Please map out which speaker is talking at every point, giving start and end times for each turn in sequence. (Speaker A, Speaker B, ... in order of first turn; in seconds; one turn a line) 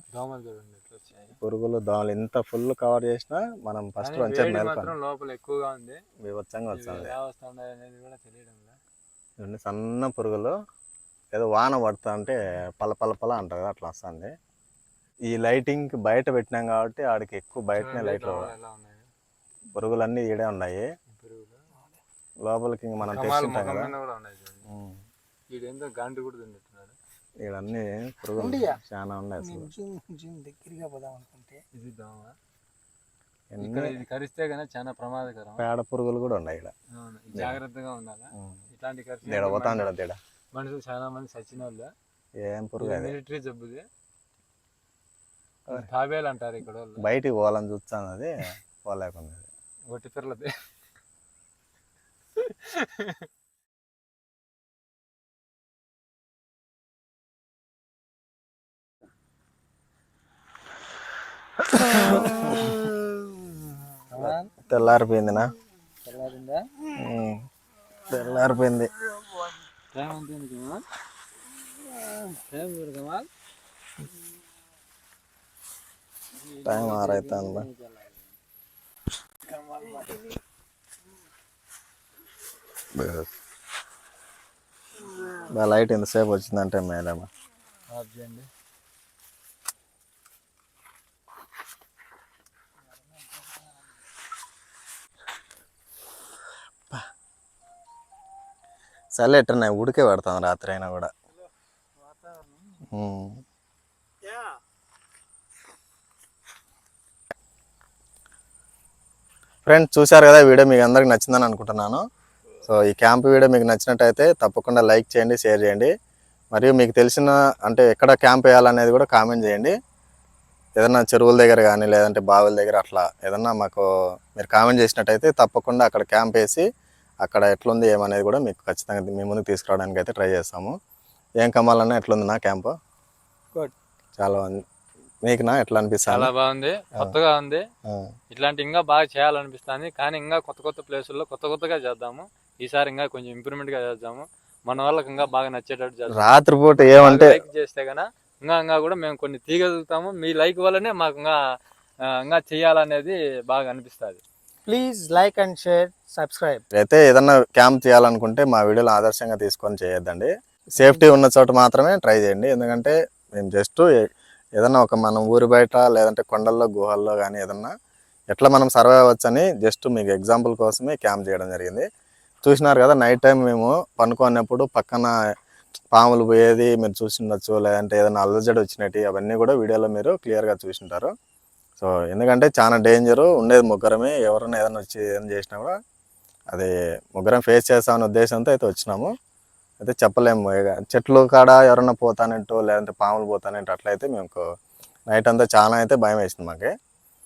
Speaker A: 0.1-1.4
Speaker B: 1.4-4.9
Speaker A: 4.0-6.0
Speaker B: 6.2-7.1
Speaker A: 6.7-8.8
Speaker B: 9.4-10.6
Speaker B: 11.3-14.3
Speaker B: 15.3-18.5
Speaker A: 17.7-19.1
Speaker B: 19.7-20.9
Speaker A: 21.1-21.7
Speaker B: 22.4-23.9
Speaker A: 23.1-24.6
Speaker B: 24.7-25.0
Speaker A: 25.5-27.0
Speaker B: 27.4-29.7
Speaker C: 28.4-28.8
Speaker C: 29.4-31.6
Speaker A: 31.7-32.3
Speaker B: 33.5-34.0
Speaker A: 33.6-35.6
Speaker B: 35.6-36.7
Speaker A: 36.9-39.9
Speaker B: 39.3-40.2
Speaker A: 40.5-41.9
Speaker B: 42.4-43.1
Speaker A: 42.8-43.9
Speaker A: 45.7-47.0
Speaker B: 47.0-49.5
Speaker A: 49.9-50.5
Speaker A: 52.3-53.3
Speaker B: 61.7-62.9
Speaker A: 64.1-64.5
Speaker B: 64.2-65.5
Speaker A: 66.0-66.7
Speaker B: 66.9-67.4
Speaker B: 68.1-68.9
Speaker A: 69.9-70.8
Speaker A: 72.0-73.3
Speaker A: 76.3-78.4
Speaker B: 76.6-77.7
Speaker A: 79.5-80.3
Speaker B: 82.9-83.3
Speaker B: 85.4-87.3
Speaker A: 87.9-88.5
Speaker B: 99.1-101.1
Speaker A: 101.3-102.8
Speaker B: 102.9-103.4
Speaker B: 109.7-112.0
Speaker B: 112.6-115.9
Speaker B: 116.5-119.7
Speaker B: 120.8-126.7
Speaker B: 127.2-130.8
Speaker B: 131.4-132.8
Speaker B: 134.2-134.6
Speaker B: 135.2-136.3
Speaker A: 136.1-137.6
Speaker B: 137.8-138.1
Speaker A: 138.3-151.4
Speaker B: 146.1-147.4
Speaker A: 152.1-154.2
Speaker C: 154.7-156.6
Speaker B: 156.7-163.9
Speaker B: 164.6-167.7
Speaker B: 168.3-171.9
Speaker B: 172.4-175.1
Speaker B: 175.9-181.1
Speaker B: 181.8-185.7
Speaker B: 186.5-189.1
Speaker B: 189.8-194.4
Speaker B: 195.1-196.7